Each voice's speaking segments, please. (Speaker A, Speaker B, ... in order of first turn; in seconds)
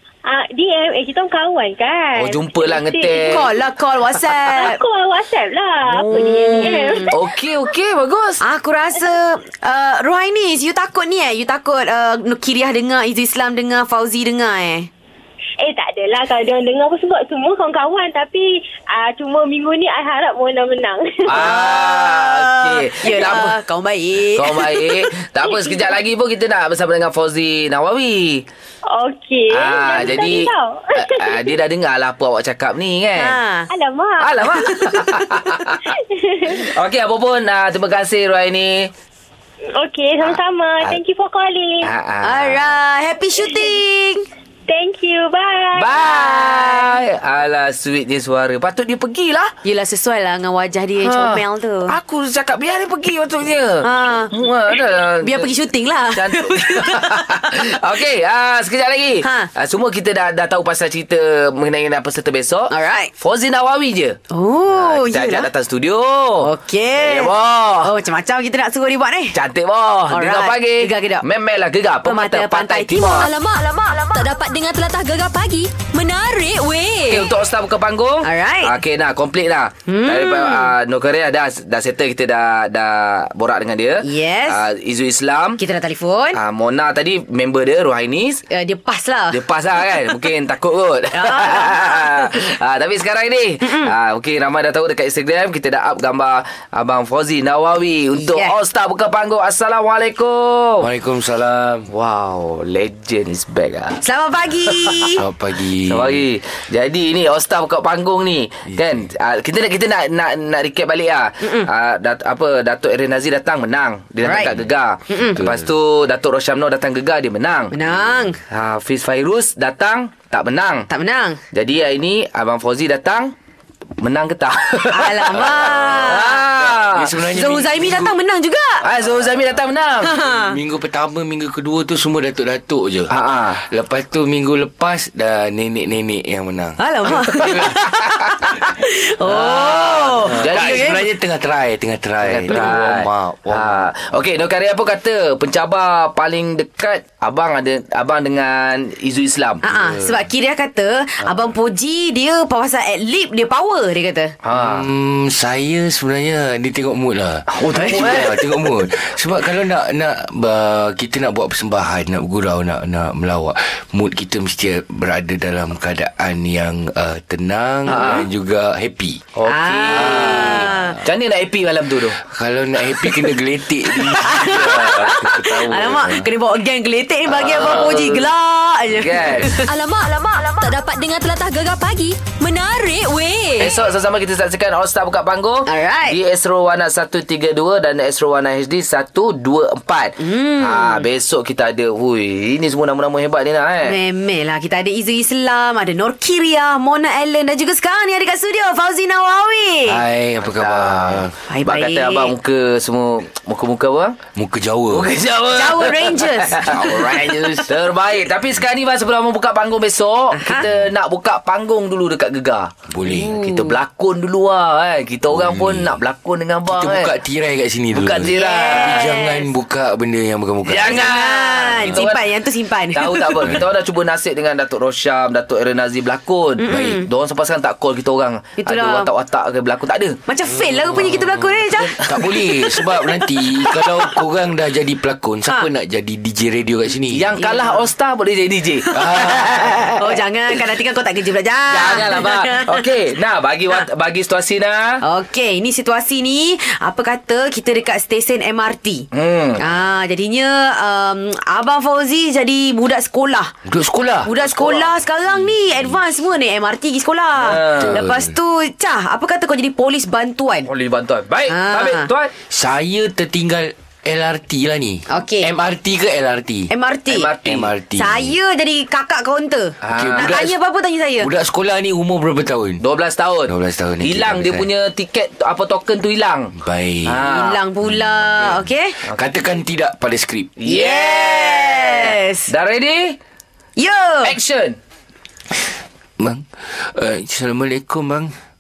Speaker A: 0.3-3.5, 4.4-7.1, 15.6-21.6, 25.4-26.0, 28.9-31.6, 33.7-35.1, 35.9-36.7, 39.8-41.9, 44.7-46.2
Speaker B: 2.2-3.5, 5.8-8.4, 21.3-23.6, 24.3-28.5, 29.5-33.4, 34.2-35.8, 36.5-38.9, 40.2-41.0, 41.8-42.7, 45.8-49.5, 51.0-55.5, 56.1-64.2, 64.7-67.9, 69.3-73.3, 77.1-85.6, 86.3-88.4, 89.3-100.9, 101.9-104.0, 104.7-105.1, 105.9-117.7, 118.5-120.9, 121.5-123.3, 124.0-127.1, 128.8-130.1, 133.1-133.6, 139.3-141.0, 142.2-149.6, 154.4-154.9, 157.5-158.4, 167.9-168.3, 169.4-172.2, 177.3-178.2, 179.0-179.5, 183.6-194.0, 200.4-204.2, 204.9-212.7, 213.3-217.1, 217.9-219.1, 220.7-222.2, 222.9-230.2, 232.0-232.5, 237.1-240.0, 241.7-245.0, 249.1-249.6, 254.4-254.9, 257.4-258.0, 260.7-262.3, 267.1-267.7, 269.8-270.3, 272.8-276.5, 277.1-277.6, 280.6-283.2, 284.2-284.8
Speaker C: 3.2-4.8, 6.6-7.2, 8.4-14.9, 21.3-24.9, 33.1-33.7, 42.2-44.2, 46.0-47.0, 49.6-52.0, 53.8-54.3, 55.2-57.5, 59.2-59.5, 62.7-63.1, 64.3-65.5, 66.4-67.3, 67.8-69.4, 70.1-71.2, 72.0-73.2, 78.2-78.8, 79.9-80.8, 84.0-84.7, 85.6-86.4, 88.5-89.4, 91.1-92.4, 93.6-93.9, 98.2-98.6, 104.0-105.2, 111.4-111.7, 114.2-115.5, 117.7-118.4, 120.9-121.4, 124.9-126.4, 127.3-128.8, 130.0-130.6, 136.8-141.0, 142.5-142.8, 149.6-154.3, 169.5-171.0, 174.1-179.7, 185.7-186.2, 190.2-191.1, 193.8-200.0, 201.5-202.3, 205.5-207.3, 210.3-210.7, 213.1-213.8, 218.3-219.5, 220.8-223.5, 226.6-227.1, 228.6-229.1, 230.3-234.1, 237.4-237.9, 238.8-242.9, 245.0-253.5, 254.2-260.7, 261.5-262.1, 265.1-265.5, 266.7-267.3, 267.9-271.3, 277.4-279.0, 280.7-282.5, 283.8-284.4
Speaker D: 73.2-77.3, 179.6-183.7
Speaker E: 100.8-101.9, 105.2-106.2, 108.7-109.0, 115.4-115.7, 125.3-128.2, 129.0-129.5, 130.2-137.7, 139.6-143.9, 149.7-150.2, 154.5-169.2, 169.9-171.1, 172.2-176.3, 177.5-178.0, 199.9-201.3, 204.3-205.1, 210.6-210.9, 212.9-213.3, 215.3-216.0, 216.7-221.2, 221.7-222.1, 226.7-227.0, 230.4-237.3, 238.9-239.6, 253.7-254.3, 257.8-258.4, 262.5-266.7, 267.4-268.4, 269.9-270.6, 271.2-272.8, 273.5-274.7, 276.6-277.3, 277.8-280.5, 286.2-288.3